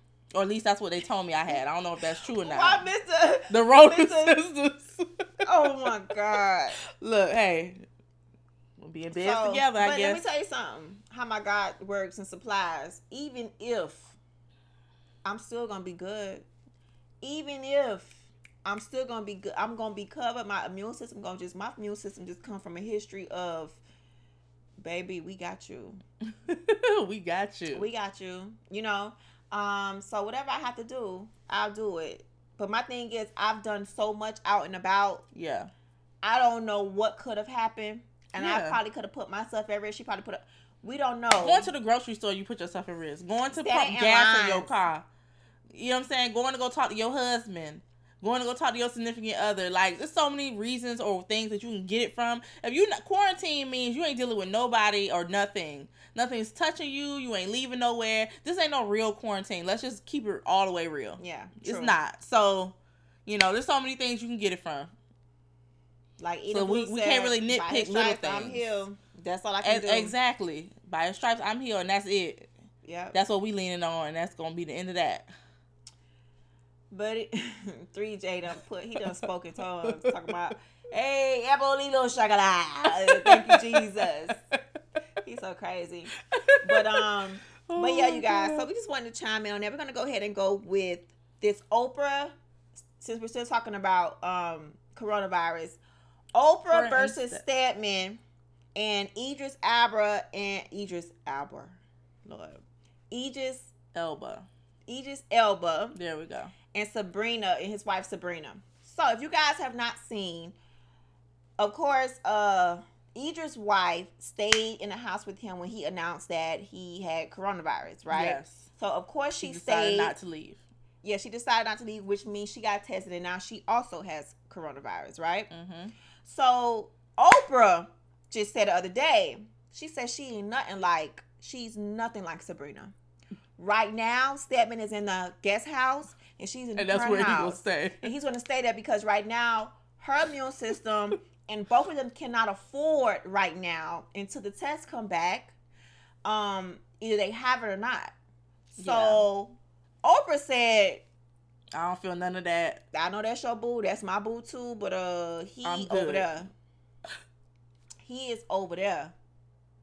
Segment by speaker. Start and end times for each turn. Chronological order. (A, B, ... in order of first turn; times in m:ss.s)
0:00.3-0:02.8 A
0:02.4-0:04.4 B
0:03.5-0:05.2 A
0:05.4-0:06.8 B
0:05.8-0:06.4 A
0:07.0-0:07.8 A
0:08.8-0:10.2 A
0:09.2-0:14.1 B
0:15.2-0:16.5 B
0:17.2-0:23.8 B
0:24.8-0:26.0 B
0:26.5-0:27.9 A
0:27.7-0:35.3 B
0:35.3-0:35.7 A
0:36.2-0:41.7 B
0:38.4-0:38.8 A
0:41.4-0:45.0 A
0:43.6-0:44.7 B
0:45.7-1:02.8 A
1:01.2-1:02.0 B
1:03.3-1:04.9 A
1:06.2-1:10.1 B
1:06.5-1:08.6 A
1:09.6-1:12.5 A
1:12.8-1:13.2 B
1:13.1-1:15.3 A
1:16.9-1:24.4 B
1:19.0-1:19.3 A
1:19.8-1:20.1 A
1:22.9-1:24.6 A
1:25.2-1:32.3 B
1:26.3-1:27.1 A
1:27.6-1:28.7 A
1:33.0-1:35.8 B
1:36.4-1:38.2 B
1:36.7-1:37.4 A
1:38.8-1:43.7 B
1:43.9-1:44.5 A
1:44.9-1:46.0 B
1:46.0-1:46.5 A
1:46.7-1:50.6 B
1:51.6-2:00.1 B
1:58.1-1:58.7 A
1:59.4-2:00.6 A
2:01.0-2:05.5 B
2:05.5-2:05.9 A
2:06.2-2:12.9 B
2:13.6-2:25.6 B
2:16.8-2:18.0 A
2:26.2-2:28.1 B
2:28.7-2:31.0 B
2:28.8-2:29.2 A
2:31.7-2:32.8 A
2:32.9-2:36.5 B
2:35.6-2:36.3 A
2:38.0-2:39.1 B